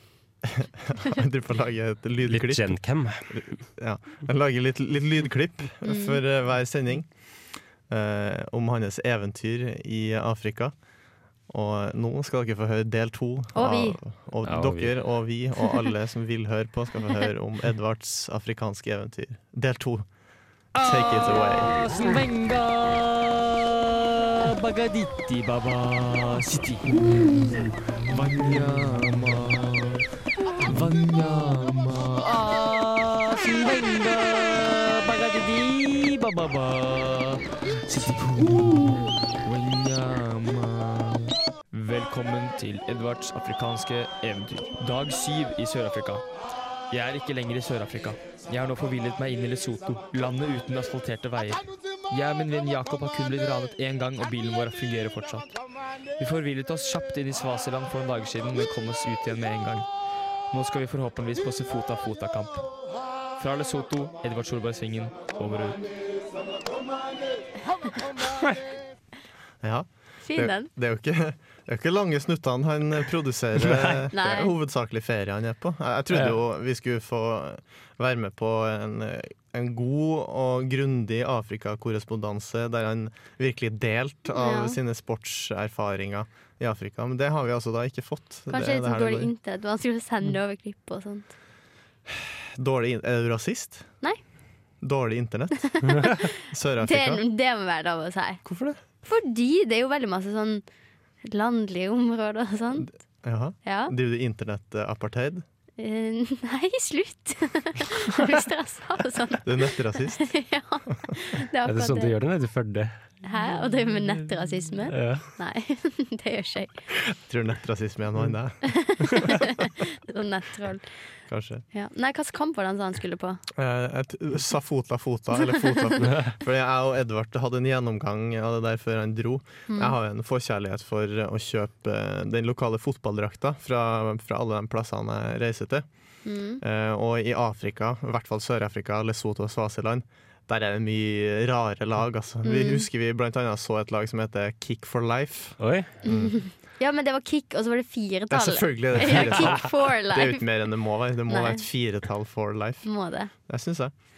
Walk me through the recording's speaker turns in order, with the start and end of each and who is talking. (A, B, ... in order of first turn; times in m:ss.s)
0:00.4-0:02.8 A
0:02.3-0:03.3 B
0:03.3-0:07.1 A
0:05.8-0:06.2 C
0:07.9-0:10.7 A
0:11.5-0:20.1 A
0:13.6-0:14.0 C
0:14.4-0:14.9 B
0:20.8-0:30.1 D
0:20.8-0:21.8 A
0:30.6-0:46.2 D
0:46.9-0:55.5 D
0:56.2-0:59.9 D
1:00.5-1:02.7 D
1:03.4-1:05.9 D
1:09.6-1:29.3 A
1:10.2-1:10.7 C
1:13.7-1:14.0 B
1:14.1-1:14.5 C
1:24.3-1:24.8 C
1:28.5-1:31.3 C
1:32.1-1:33.9 A
1:34.8-1:37.2 A
1:35.7-1:38.4 C
1:38.4-1:38.8 A
1:39.0-1:40.6 C
1:41.3-1:42.9 C
1:42.8-1:45.4 A
1:43.6-1:43.9 C
1:45.8-1:52.1 C
1:49.4-1:50.4 A
1:51.7-1:53.0 B
1:53.2-1:56.8 C
1:54.9-1:55.3 B
1:57.1-1:58.7 A
1:58.7-2:00.9 C
2:01.3-2:01.6 A
2:01.7-2:03.4 C
2:03.6-2:15.9 A
2:09.7-2:10.0 C
2:16.2-2:16.6 C
2:16.6-2:26.4 A
2:22.4-2:22.9 C
2:25.6-2:25.9 B
2:26.1-2:30.4 C
2:28.3-2:32.9 A
2:31.3-2:31.6 C
2:32.8-2:33.3 C
2:33.5-2:33.9 A